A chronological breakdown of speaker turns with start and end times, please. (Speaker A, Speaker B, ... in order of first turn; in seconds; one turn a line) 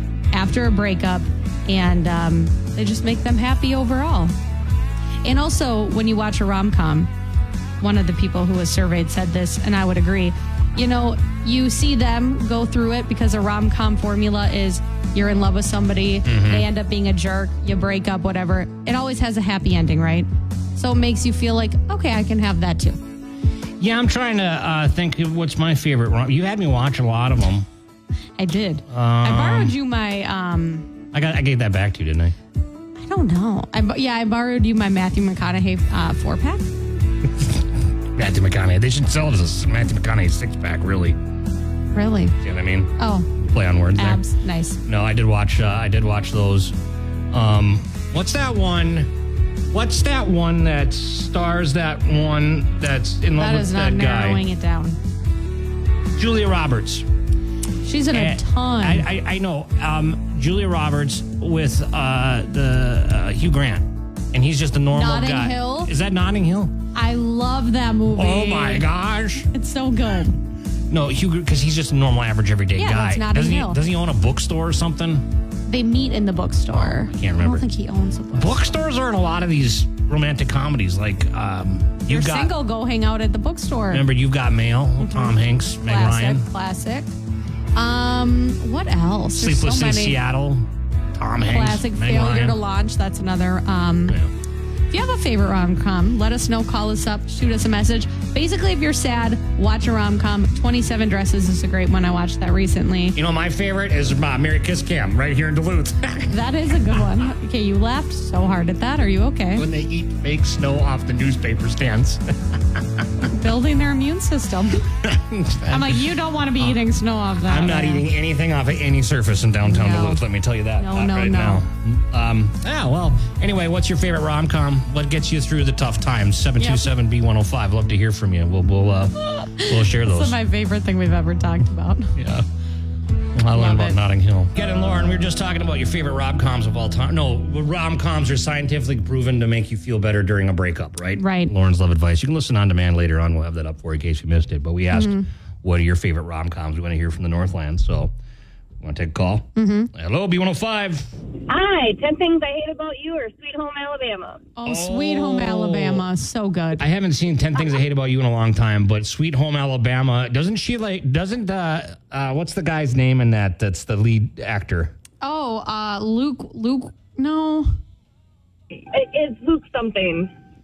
Speaker A: 0.3-4.3
Speaker A: 5.2-7.1
Speaker A: 7.8-23.0
Speaker B: 16.2-16.7
Speaker B: 23.8-27.7
Speaker A: 28.4-30.9
Speaker B: 28.9-29.8
Speaker B: 31.1-32.3
Speaker A: 33.0-36.7
Speaker B: 38.1-41.2
Speaker A: 41.9-42.4
Speaker B: 42.4-44.2
Speaker A: 43.0-43.3
Speaker A: 43.9-44.8
Speaker B: 44.8-46.7
Speaker B: 47.3-49.1
Speaker B: 49.7-54.4
Speaker A: 53.4-55.0
Speaker B: 56.1-57.0
Speaker A: 57.8-59.0
Speaker B: 58.1-66.8
Speaker A: 64.9-65.9
Speaker A: 66.9-68.9
Speaker B: 68.2-69.5
Speaker A: 69.4-70.4
Speaker B: 70.9-75.2
Speaker A: 72.8-73.8
Speaker A: 75.7-78.7
Speaker B: 76.7-77.6
Speaker B: 78.3-82.5
Speaker A: 82.1-84.0
Speaker B: 83.9-86.4
Speaker A: 85.0-87.1
Speaker A: 87.7-90.2
Speaker B: 89.3-92.6
Speaker A: 91.4-94.2
Speaker A: 94.9-103.2
Speaker B: 103.1-106.3
Speaker A: 106.3-109.7
Speaker B: 109.5-112.8
Speaker A: 113.2-114.9
Speaker B: 115.0-116.0
Speaker A: 115.7-118.1
Speaker B: 117.4-130.3
Speaker A: 119.7-120.2
Speaker A: 120.8-121.6
Speaker A: 126.6-126.9
Speaker A: 129.2-132.1
Speaker B: 132.2-132.4
Speaker B: 133.3-148.1
Speaker A: 133.5-134.0
Speaker A: 141.2-141.5
Speaker A: 144.9-145.2
Speaker B: 148.8-151.1
Speaker A: 149.6-149.9
Speaker C: 151.5-154.4
Speaker A: 154.6-156.8
Speaker B: 154.6-156.1
Speaker B: 156.8-164.9
Speaker A: 165.2-167.7
Speaker C: 168.7-170.3